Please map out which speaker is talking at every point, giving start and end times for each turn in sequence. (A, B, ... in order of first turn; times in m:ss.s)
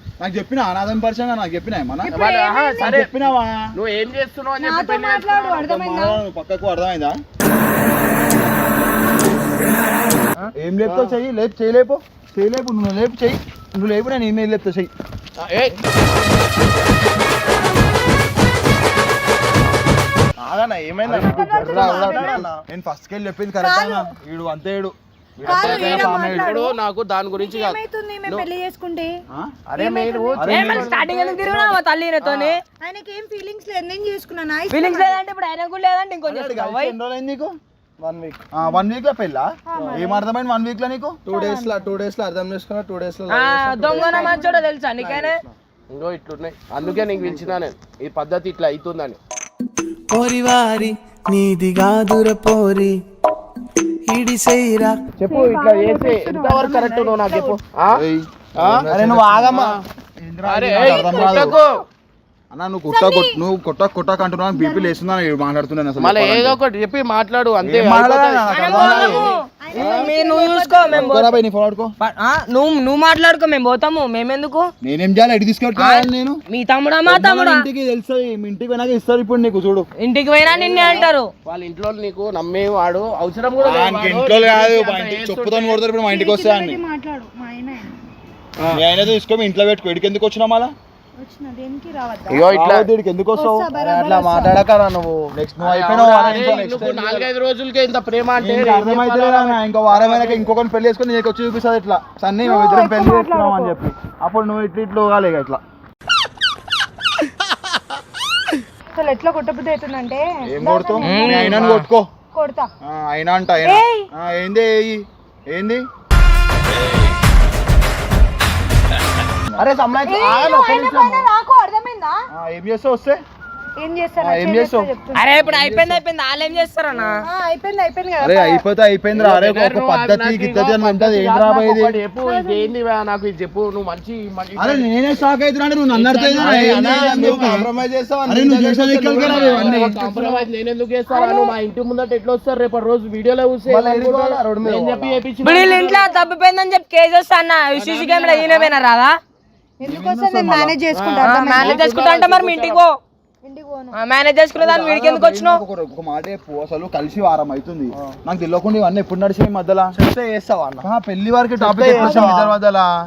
0:00.2-0:02.2 A
0:02.0-0:02.9 B
0:02.1-0:03.1 C
0:02.8-0:03.7 A
0:03.7-0:05.6 C
0:04.6-0:06.2 B
0:05.5-0:07.2 A
0:10.4-0:11.0 C
0:10.6-0:14.9 A
0:15.4-0:15.8 C
0:20.4-0:22.6 D
0:21.1-0:26.6 A
0:21.2-0:22.4 B
0:23.6-0:24.1 B
0:25.4-0:26.7 B
0:25.4-0:28.5 C
0:27.4-0:29.1 B
0:29.7-0:32.6 C
0:29.8-0:30.6 B
0:30.3-0:30.9 A
0:30.5-0:32.6 E
0:32.8-0:35.2 B
0:34.7-0:36.9 E
0:36.2-0:37.5 A
0:38.0-0:38.4 D
0:38.5-0:41.2 A
0:39.7-0:40.2 B
0:41.2-0:44.4 D
0:41.3-0:41.7 B
0:43.3-0:45.4 E
0:43.9-0:44.6 B
0:45.0-0:45.5 D
0:45.9-0:49.2 C
0:50.1-0:52.9 F
0:54.1-0:55.0 F
0:55.2-0:58.0 C
0:55.3-0:57.6 B
0:57.9-0:59.6 A
0:58.6-0:58.8 C
0:58.9-0:59.8 D
0:59.4-0:59.8 C
1:00.2-1:01.6 A
1:00.4-1:01.8 C
1:00.8-1:01.8 B
1:02.5-1:06.6 A
1:02.9-1:03.4 B
1:04.5-1:04.9 B
1:06.0-1:10.1 C
1:07.6-1:09.2 A
1:08.5-1:11.3 E
1:08.7-1:11.3 B
1:10.9-1:11.9 A
1:12.0-1:14.7 E
1:14.8-1:16.4 A
1:15.8-1:17.6 E
1:17.0-1:19.9 A
1:20.0-1:21.3 E
1:20.5-1:25.8 C
1:23.6-1:26.8 A
1:26.1-1:27.9 B
1:28.7-1:30.7 A
1:31.2-1:32.4 B
1:32.3-1:32.9 C
1:32.5-1:33.6 A
1:33.3-1:34.6 B
1:33.7-1:35.3 D
1:35.3-1:37.3 A
1:35.6-1:40.4 C
1:36.2-1:37.0 D
1:38.4-1:45.6 A
1:42.4-1:43.7 B
1:48.9-1:51.7 B
1:50.5-1:52.1 A
1:51.0-1:51.8 E
1:52.3-1:52.7 B
1:52.8-1:55.8 A
1:53.6-1:54.1 B
1:59.6-2:01.2 D
2:00.0-2:02.2 B
2:02.3-2:03.2 A
2:03.8-2:05.2 B
2:04.2-2:06.0 A
2:05.1-2:07.2 E
2:06.9-2:07.2 A
2:07.2-2:08.6 B
2:08.2-2:12.0 A
2:09.1-2:14.9 C
2:12.2-2:12.7 B
2:14.6-2:17.7 A
2:15.9-2:17.5 C
2:16.4-2:19.9 D
2:18.3-2:20.0 A
2:19.1-2:26.1 C
2:19.9-2:20.4 B
2:21.1-2:21.6 B
2:23.7-2:25.2 D
2:25.4-2:29.1 E
2:25.6-2:26.2 B
2:27.7-2:28.7 C
2:29.8-2:31.8 B
2:29.8-2:30.8 A
2:30.9-2:32.8 C
2:31.2-2:33.0 E
2:33.4-2:33.9 B
2:33.9-2:35.6 E
2:34.6-2:39.9 A
2:39.9-2:40.8 D
2:40.8-2:42.9 A
2:41.6-2:42.6 D
2:42.0-2:42.3 B